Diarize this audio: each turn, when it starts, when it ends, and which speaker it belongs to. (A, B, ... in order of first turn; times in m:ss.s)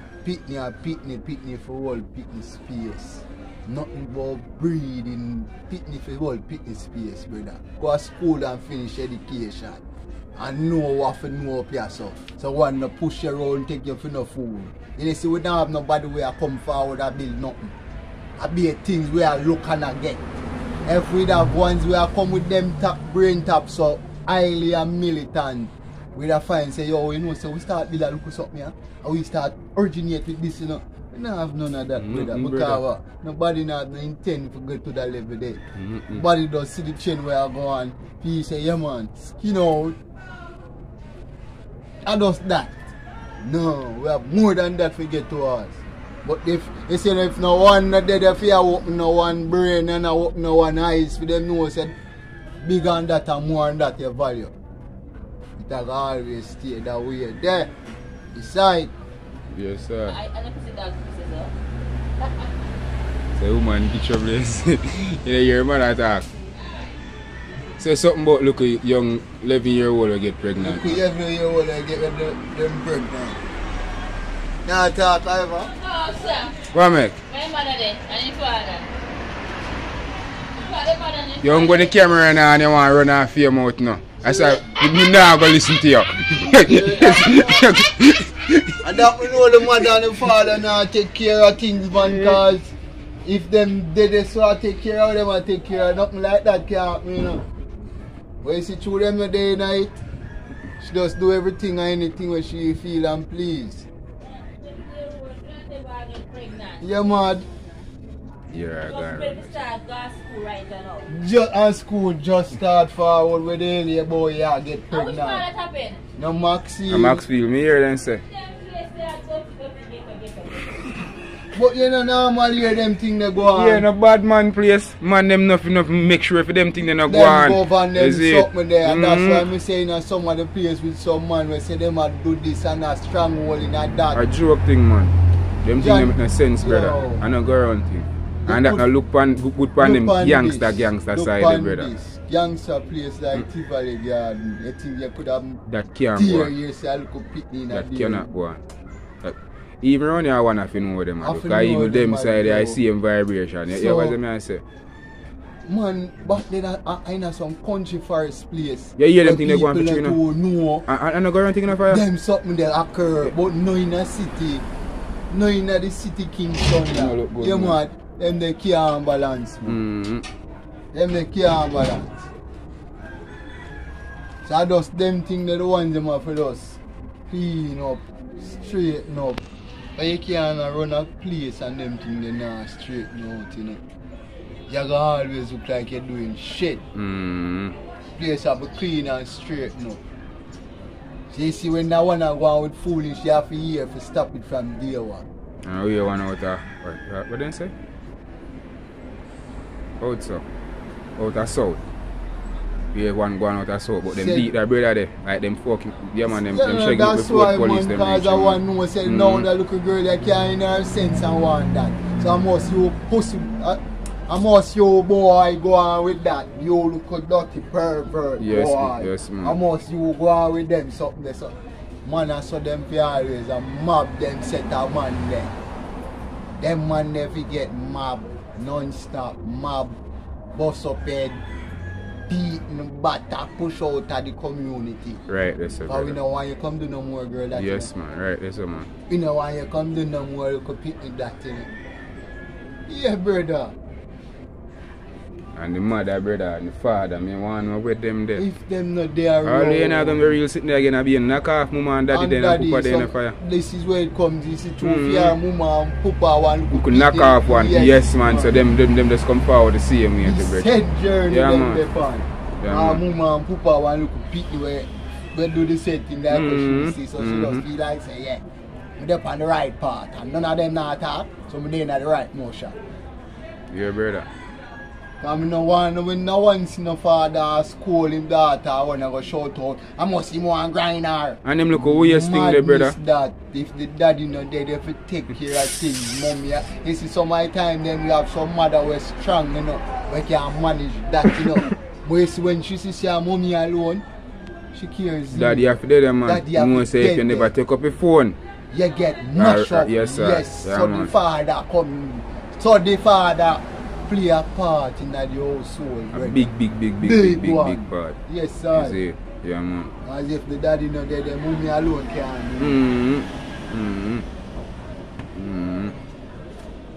0:00.2-0:09.8 A
0:10.4-0:17.7 A
0:18.4-0:20.2 A
0:20.9-0:35.6 A
0:32.0-0:32.8 B
0:35.8-0:36.2 B
0:36.1-0:40.0 A
0:42.0-0:42.8 A
0:43.4-0:51.9 A
0:52.6-0:54.5 A
0:55.6-0:57.7 A
0:58.3-0:58.9 A
0:59.5-1:00.2 B
1:00.1-1:01.5 C
1:02.2-1:02.5 C
1:03.4-1:06.3 B
1:07.8-1:11.0 B
1:10.6-1:13.4 A
1:14.6-1:15.7 A
1:15.8-1:16.6 C
1:16.7-1:17.2 B
1:17.3-1:18.9 C
1:20.6-1:21.9 C
1:21.4-1:29.0 B
1:24.2-1:24.6 A
1:26.6-1:27.7 A
1:28.8-1:32.7 A
1:32.0-1:32.4 B
1:33.2-1:37.4 A
1:38.4-1:39.9 A
1:40.8-1:43.9 A
1:44.7-1:46.8 C
1:46.8-1:47.5 A
1:48.5-1:49.6 B
1:48.9-1:51.1 C
1:51.1-1:55.4 A
1:54.9-1:56.0 C
1:56.2-1:57.2 A
1:56.9-1:58.2 B
1:58.3-2:01.0 C
2:01.5-2:03.9 A
2:03.5-2:09.5 B
2:07.1-2:14.2 A
2:14.2-2:21.9 B
2:15.8-2:17.2 A
2:18.5-2:18.9 A
2:19.8-2:25.6 A
2:25.7-2:26.5 B
2:26.2-2:28.3 A
2:27.7-2:28.6 B
2:29.2-2:34.6 B
2:31.2-2:32.8 A
2:33.7-2:34.2 A
2:35.7-2:40.9 A
2:39.0-2:40.2 B
2:40.9-2:42.0 B
2:41.7-2:44.6 A
2:45.3-2:49.8 A
2:46.9-2:47.8 B
2:49.7-2:50.2 B
2:50.9-2:52.2 A
2:54.4-2:56.8 A
2:57.3-2:59.4 A
3:00.0-3:03.8 A
3:04.7-3:06.8 A
3:06.9-3:07.8 B
3:08.2-3:10.0 A
3:11.3-3:15.2 A
3:15.6-3:17.7 B
3:20.0-3:20.4 B
3:21.2-3:21.8 B
3:22.9-3:29.5 B
3:24.1-3:24.5 A
3:26.3-3:41.5 A
3:38.4-3:39.6 B
3:42.0-3:45.5 A
3:46.6-3:50.0 A
3:50.6-3:51.4 A
3:52.3-3:55.2 A
3:55.3-3:56.2 B
3:55.9-3:57.9 A
3:57.5-3:58.9 B
3:59.1-4:01.7 A
4:02.9-4:03.8 A
4:05.6-4:08.4 B
4:08.4-4:10.4 A
4:09.4-4:13.4 B
4:12.1-4:18.6 A
4:14.8-4:15.4 B
4:16.7-4:20.7 B
4:20.2-4:28.4 A
4:21.3-4:21.8 B
4:22.6-4:23.0 B
4:26.3-4:27.6 B
4:29.0-4:32.8 A
4:33.7-4:34.3 B
4:35.2-4:54.0 A
4:41.4-4:43.0 B
4:51.3-4:51.7 B
4:54.7-4:55.7 A
4:55.3-4:58.4 B
4:56.2-4:57.5 A
4:58.7-5:06.5 A
4:59.4-5:01.1 B
5:06.1-5:08.2 B
5:07.0-5:09.0 A
5:08.7-5:09.9 B
5:10.0-5:12.8 A
5:12.6-5:14.3 B
5:15.4-5:16.0 B